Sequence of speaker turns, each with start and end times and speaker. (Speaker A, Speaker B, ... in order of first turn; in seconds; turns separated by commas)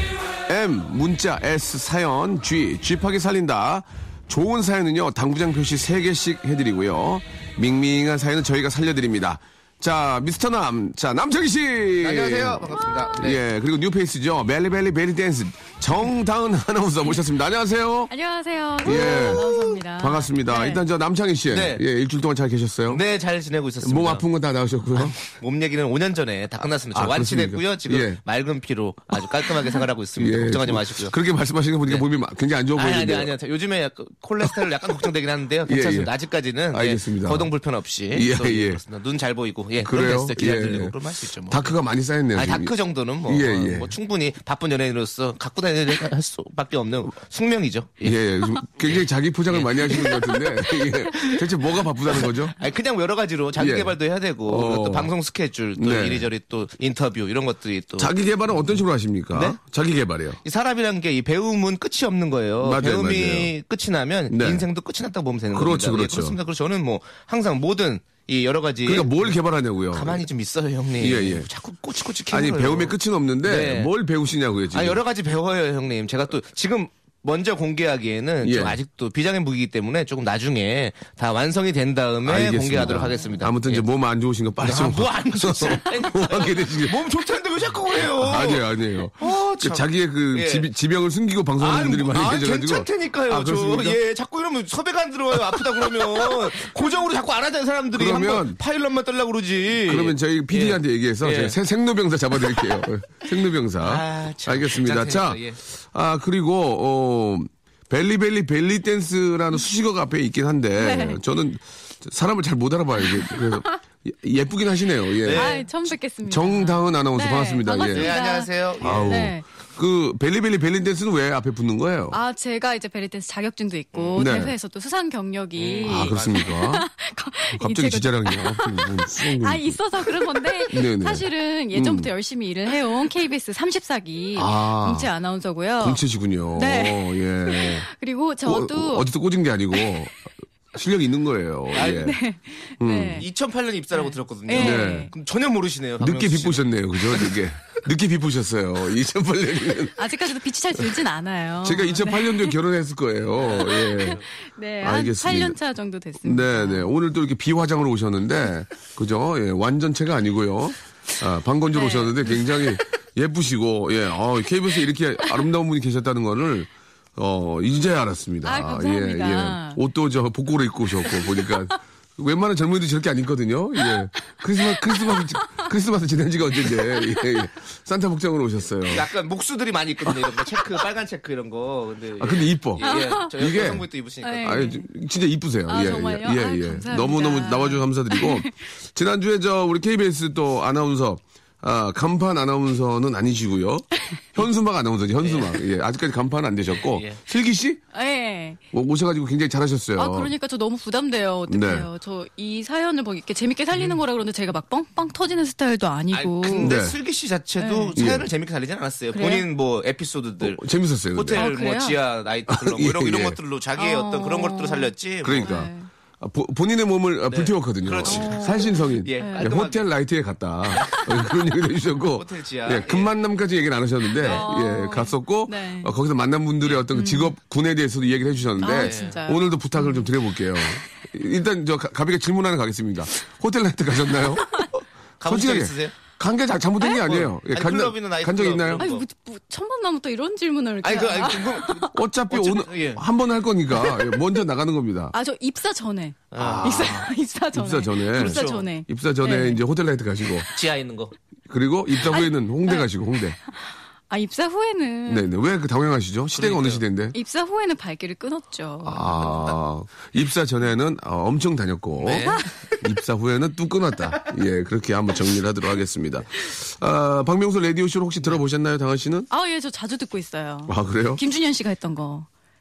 Speaker A: 0.4-18.1, Speaker B: 12.0-13.4, Speaker C: 18.1-20.8, Speaker A: 18.8-23.0, Speaker B: 21.5-21.8, Speaker B: 22.9-24.2, Speaker A: 23.8-25.1, Speaker B: 24.9-31.1, Speaker A: 26.9-28.2, Speaker A: 30.2-33.3, Speaker B: 32.7-41.8, Speaker A: 35.6-36.1, Speaker A: 36.7-37.5, Speaker A: 38.1-38.8, Speaker A: 39.8-41.0, Speaker A: 41.5-42.7, Speaker B: 42.3-48.2, Speaker A: 43.2-43.9, Speaker A: 48.0-52.5, Speaker B: 48.8-51.5, Speaker B: 52.0-58.1, Speaker A: 53.5-54.0, Speaker A: 54.5-55.1, Speaker A: 55.8-56.3, Speaker A: 58.0-60.4, Speaker B: 59.3-59.6, Speaker B: 60.4-69.3, Speaker A: 62.6-63.5, Speaker A: 64.3-64.7, Speaker A: 65.5-66.4, Speaker A: 68.8-70.2, Speaker B: 69.9-73.9, Speaker A: 71.0-71.5, Speaker A: 72.3-75.0, Speaker B: 74.7-83.8, Speaker A: 78.4-78.8, Speaker A: 82.2-87.0, Speaker B: 84.6-90.7, Speaker A: 88.0-94.0, Speaker B: 91.6-101.6, Speaker A: 97.9-98.6, Speaker A: 99.8-115.6, Speaker B: 102.5-102.8, Speaker B: 103.8-105.6, Speaker C: 110.8-111.2, Speaker C: 113.0-113.8, Speaker B: 115.2-115.7, Speaker C: 115.3-119.4, Speaker A: 116.2-118.1, Speaker B: 117.8-119.3, Speaker A: 118.8-122.2, Speaker C: 122.1-136.0, Speaker B: 123.9-124.2, Speaker A: 124.1-124.5, Speaker B: 125.6-126.5, Speaker A: 125.8-126.8, Speaker A: 127.5-132.1, Speaker A: 134.3-135.1, Speaker A: 135.8-137.8, Speaker C: 136.5-139.1, Speaker A: 138.4-142.2, Speaker B: 141.7-142.1, Speaker C: 141.8-143.2, Speaker A: 142.8-143.2, Speaker B: 143.2-147.3, Speaker C: 143.9-145.1, Speaker A: 144.5-145.1, Speaker A: 146.0-150.1, Speaker C: 149.9-152.6, Speaker A: 151.6-154.2, Speaker B: 153.4-154.1, Speaker C: 153.5-156.9, Speaker A: 154.8-155.6, Speaker A: 156.2-179.1, Speaker C: 161.7-162.7, Speaker C: 168.4-169.8, Speaker C: 171.0-171.5, Speaker C: 174.5-175.7, Speaker C: 176.6-177.4, Speaker B: 178.8-184.7, Speaker A: 182.2-183.9, Speaker C: 182.8-183.3, Speaker C: 184.2-184.9, Speaker A: 184.4-197.8, Speaker C: 185.7-188.6, Speaker B: 195.2-195.6, Speaker B: 196.9-197.2, Speaker C: 197.9-198.6, Speaker A: 198.7-200.3, Speaker C: 200.0-206.8, Speaker A: 201.5-201.9, Speaker B: 206.1-215.5, Speaker A: 206.6-207.0, Speaker C: 207.6-208.0, Speaker A: 207.9-208.3, Speaker C: 209.1-209.5, Speaker A: 210.4-211.5, Speaker C: 211.3-212.0, Speaker A: 212.5-213.4, Speaker C: 213.8-215.9, Speaker A: 215.2-238.8, Speaker B: 217.3-219.9, Speaker C: 218.1-219.5, Speaker B: 220.7-221.4, Speaker B: 222.1-223.1, Speaker B: 224.1-224.5, Speaker C: 224.2-225.9, Speaker C: 226.9-227.3, Speaker C: 228.6-230.1, Speaker B: 228.6-229.2, Speaker B: 235.2-235.9, Speaker B: 236.9-239.0, Speaker C: 238.8-241.9, Speaker B: 240.8-243.0, Speaker A: 241.9-245.1, Speaker C: 243.7-244.2, Speaker C: 245.1-249.6, Speaker B: 246.3-247.1, Speaker A: 246.4-247.0, Speaker A: 247.5-250.5, Speaker B: 248.1-248.7, Speaker B: 250.5-251.1, Speaker A: 251.5-253.3, Speaker C: 252.1-252.9, Speaker C: 253.5-255.3, Speaker A: 255.1-257.1, Speaker B: 256.3-256.8, Speaker C: 257.1-259.5, Speaker A: 258.8-269.3, Speaker B: 262.0-262.8, Speaker C: 269.3-272.3, Speaker A: 270.7-271.2